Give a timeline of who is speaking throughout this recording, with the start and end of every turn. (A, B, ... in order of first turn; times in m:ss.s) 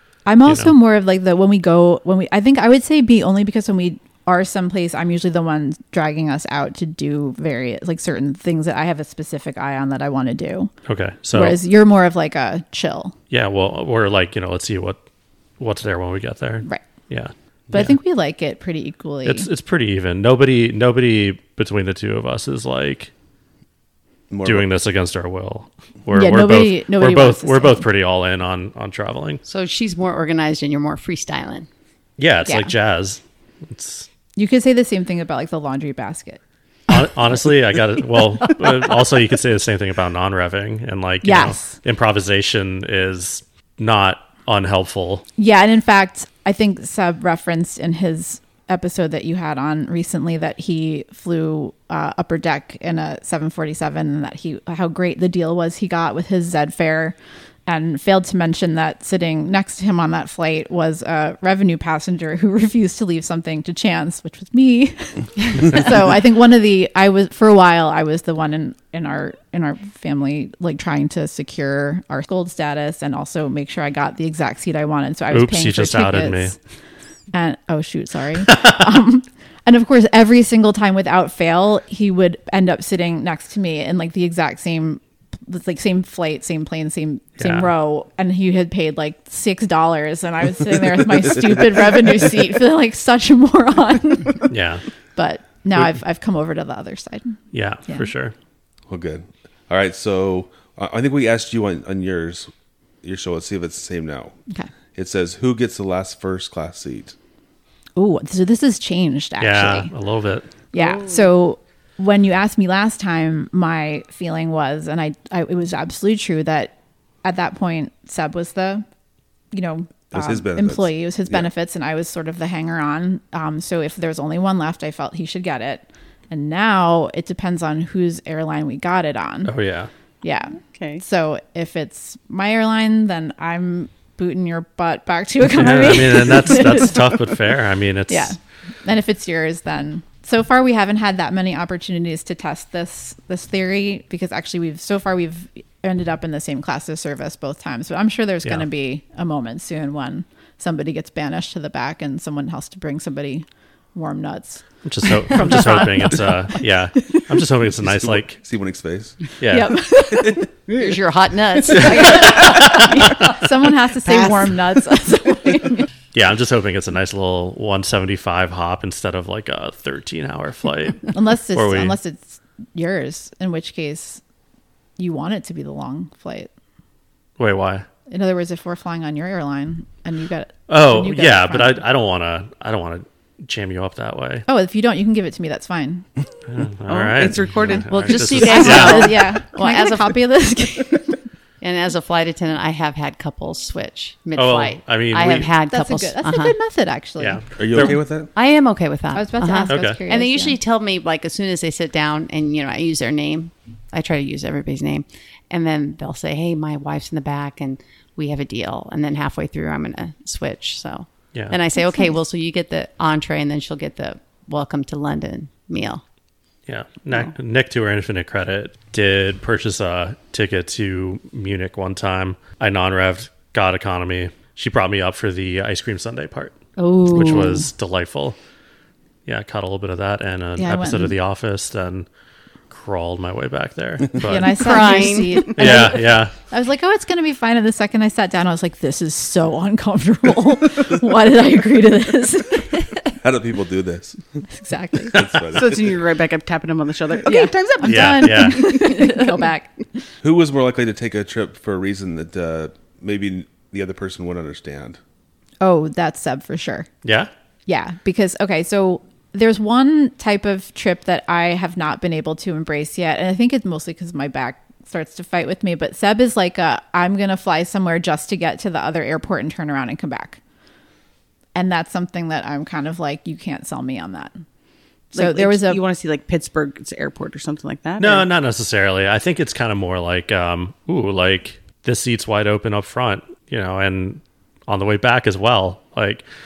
0:00.2-0:10.7 A
0:00.4-0:00.7 B
0:10.8-0:11.6 B
0:11.3-0:13.1 A
0:13.3-0:15.0 B
0:15.6-0:18.0 B
0:17.7-0:19.5 A
0:19.2-0:23.1 B
0:24.3-0:24.6 C
0:24.4-0:29.4 B
0:26.1-0:27.8 A
0:29.4-0:31.7 D
0:32.2-0:34.1 B
0:32.4-0:32.7 A
0:34.4-0:36.4 A
0:36.9-0:45.2 B
0:41.2-0:41.8 A
0:45.4-0:57.2 A
0:57.7-1:16.6 A
1:15.3-1:16.5 B
1:17.3-1:34.5 A
1:27.4-1:27.7 B
1:31.0-1:31.8 C
1:34.5-1:34.8 B
1:35.1-1:38.1 A
1:37.5-1:38.3 B
1:38.9-1:42.5 C
1:43.0-1:44.4 C
1:44.9-1:47.1 C
1:48.0-1:49.9 A
1:49.4-1:50.5 B
1:50.7-1:58.8 A
1:50.7-1:51.2 E
1:59.5-2:09.5 A
2:00.1-2:01.5 C
2:09.4-2:09.9 B
2:10.2-2:17.4 A
2:10.7-2:11.0 E
2:15.4-2:18.4 B
2:18.1-2:37.2 A
2:34.8-2:38.4 B
2:37.8-2:39.2 C
2:39.4-2:39.8 B
2:39.5-2:40.5 A
2:40.7-2:42.4 D
2:41.7-2:43.1 B
2:41.8-2:45.9 A
2:42.6-2:42.8 E
2:46.1-2:52.0 B
2:51.1-2:54.2 A
2:55.0-2:56.5 A
2:57.4-2:57.9 B
2:58.1-3:01.8 A
3:00.7-3:04.5 B
3:04.5-3:06.1 A
3:06.5-3:09.2 B
3:06.9-3:08.9 E
3:07.9-3:10.2 D
3:08.4-3:11.1 A
3:11.6-3:16.6 D
3:14.4-3:15.5 B
3:15.6-3:17.9 A
3:17.2-3:18.0 B
3:17.6-3:18.3 C
3:18.3-3:36.0 D
3:19.1-3:20.6 A
3:19.7-3:20.0 B
3:31.8-3:32.1 A
3:36.7-3:48.4 B
3:46.8-3:47.7 D
3:47.2-3:47.4 A
3:49.2-3:52.0 B
3:50.6-3:51.1 A
3:52.7-3:54.8 B
3:54.2-4:03.0 A
3:54.5-3:55.9 D
3:55.5-3:56.3 B
4:03.2-4:04.4 C
4:04.5-4:05.4 A
4:05.1-4:06.0 C
4:05.5-4:09.1 E
4:07.2-4:10.0 A
4:07.8-4:08.9 B
4:10.2-4:15.0 C
4:15.6-4:16.9 A
4:17.0-4:17.3 B
4:17.7-4:30.4 A
4:31.5-4:34.3 A
4:35.1-4:35.8 A
4:35.1-4:38.3 E
4:38.0-4:46.2 B